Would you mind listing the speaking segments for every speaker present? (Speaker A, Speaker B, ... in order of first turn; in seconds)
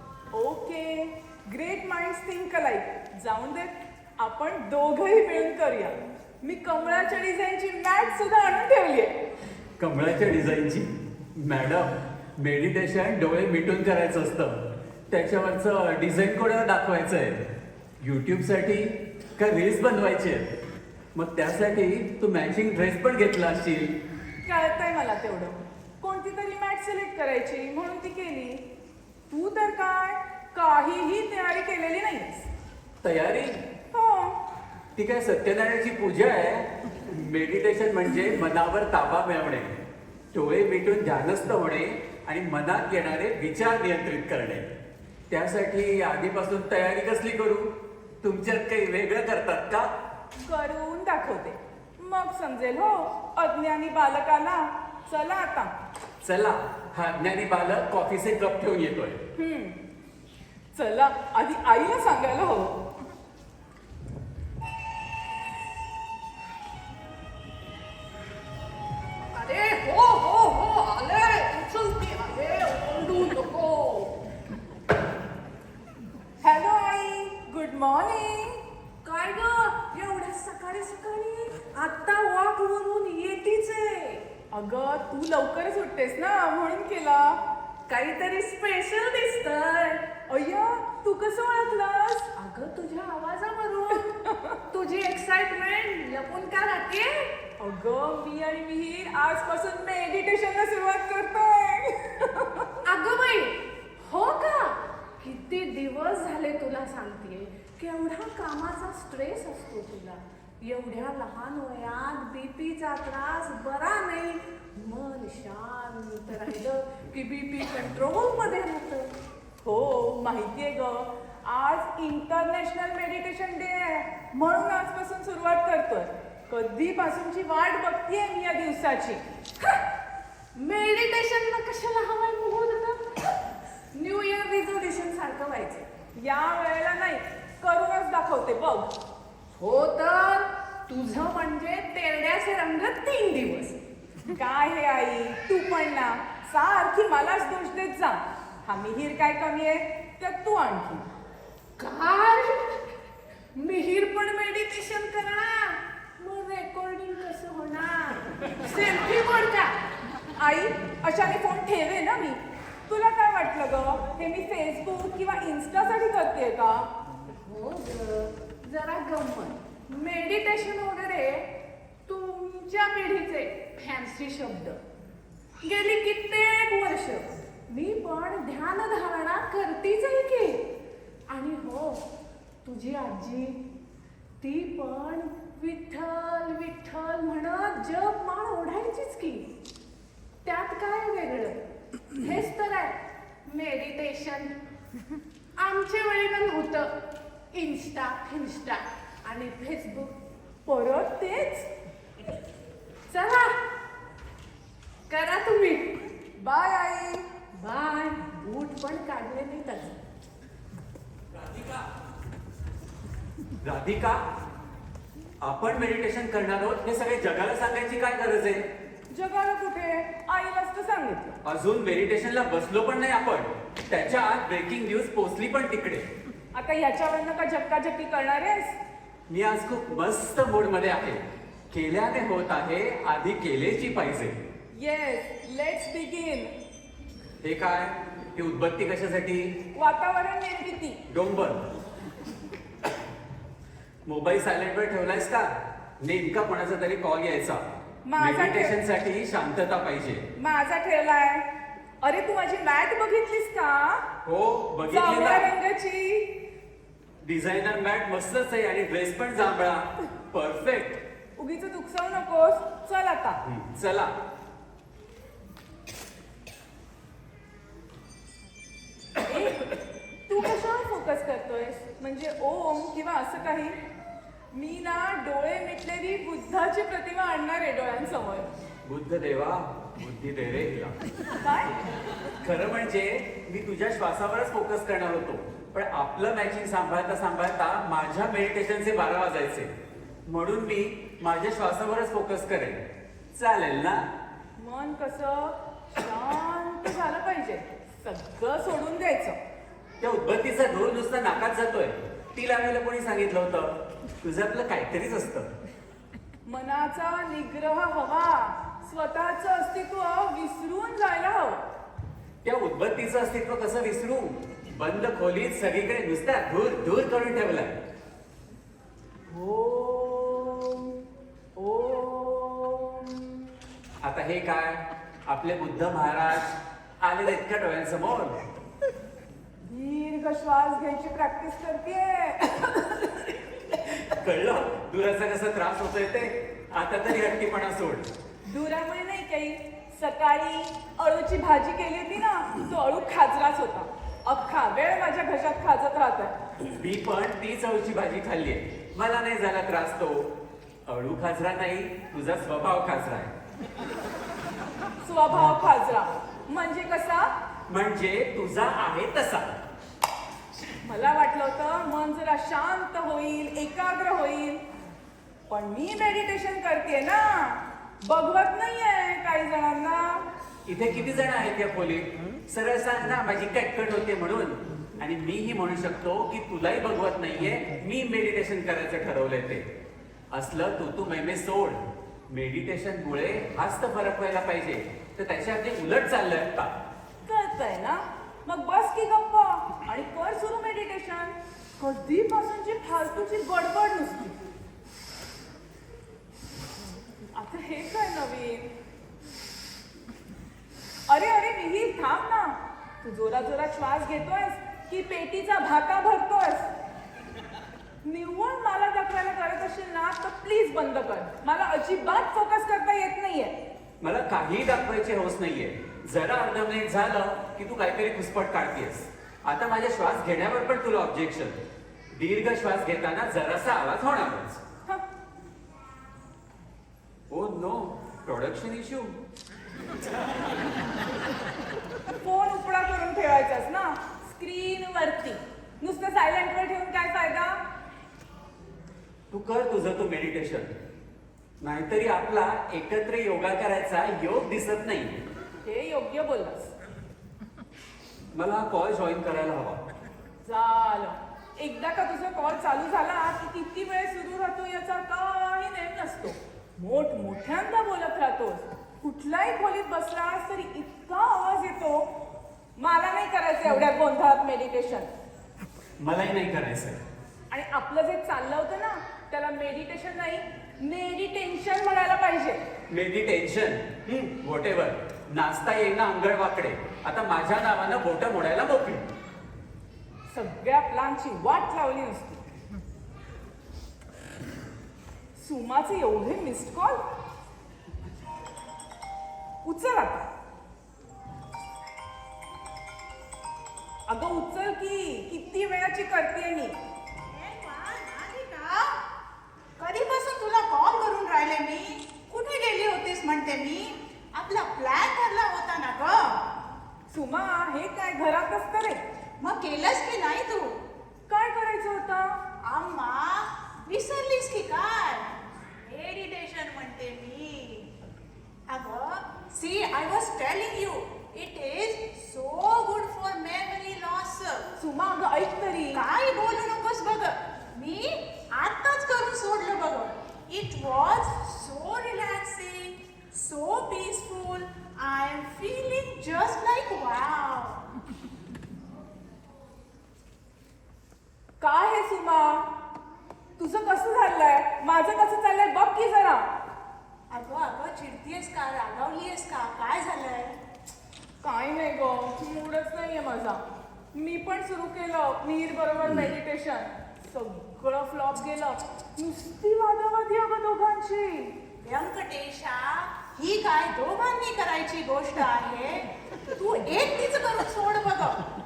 Speaker A: 0.3-9.1, 24.4-28.6, 29.3-32.5, 33.9-34.4, 50.4-55.7, 59.4-59.8, 60.8-62.8, 76.4-78.6, 84.5-87.4, 90.3-92.3, 94.0-94.6, 97.6-102.7, 119.6-129.2, 136.2-138.9, 144.3-151.1, 160.4-166.9, 200.7-201.7, 206.4-207.3, 219.1-221.4, 226.5-228.8, 234.7-236.5, 239.8-241.0, 248.1-248.8, 250.4-251.4, 252.0-254.1, 254.9-256.3, 261.4-263.4, 269.2-273.8, 274.5-278.5, 281.4-281.7, 294.6-299.4, 306.5-311.6, 319.3-321.0, 321.6-323.5, 329.7-333.4, 338.5-346.4, 355.0-357.3, 360.8-364.6, 365.5-370.2, 387.2-394.4, 397.3-398.7, 401.1-406.7, 408.1-413.5, 432.1-437.6, 445.6-446.7, 450.4-462.1, 462.8-465.1, 467.5-472.6, 480.3-482.4, 485.4-487.0, 489.6-490.3, 494.1-496.8, 507.1-509.0, 511.3-512.4, 524.8-526.0, 541.6-542.6, 543.6-546.5, 551.4-553.6, 554.1-561.5
Speaker B: 9.8-14.6, 15.1-17.4, 18.0-20.5, 21.1-23.9, 33.0-33.6, 35.0-39.7, 40.3-44.7, 45.3-47.7, 48.2-49.9, 56.2-59.2, 211.4-211.8, 213.6-214.2, 215.4-218.7, 221.4-226.1, 229.3-234.4, 237.4-239.6, 241.1-241.6, 244.1-247.6, 248.2-250.3, 254.2-255.5, 257.2-261.0, 263.4-264.1, 278.9-280.9, 282.4-289.7, 290.3-292.8, 293.4-294.1, 300.0-305.5, 312.4-317.8, 324.0-328.4, 333.7-338.1, 346.7-350.3, 350.9-353.3, 357.7-359.6, 370.7-379.7, 380.3-386.7, 414.0-421.6, 422.1-424.6, 427.3-429.2, 439.3-440.7, 441.6-445.2, 448.3-449.8, 466.0-467.0, 472.9-479.1
Speaker C: 69.4-74.1, 79.0-84.3, 87.9-90.1, 92.3-94.1, 94.7-97.3, 102.8-119.1, 130.6-133.4, 133.9-135.9, 139.6-143.8, 151.8-152.8, 153.6-159.8, 167.5-171.5, 172.1-174.8, 175.6-180.7, 181.3-182.0, 182.6-183.6, 184.4-189.5, 190.4-191.6, 192.2-194.5, 195.6-197.0, 197.5-200.2, 203.1-203.6, 205.1-205.9, 207.5-210.0
Speaker D: 497.3-499.0, 499.8-506.4, 509.4-510.8, 512.6-515.3, 515.8-517.9, 518.7-524.6, 525.9-537.8, 547.3-550.6, 561.8-568.4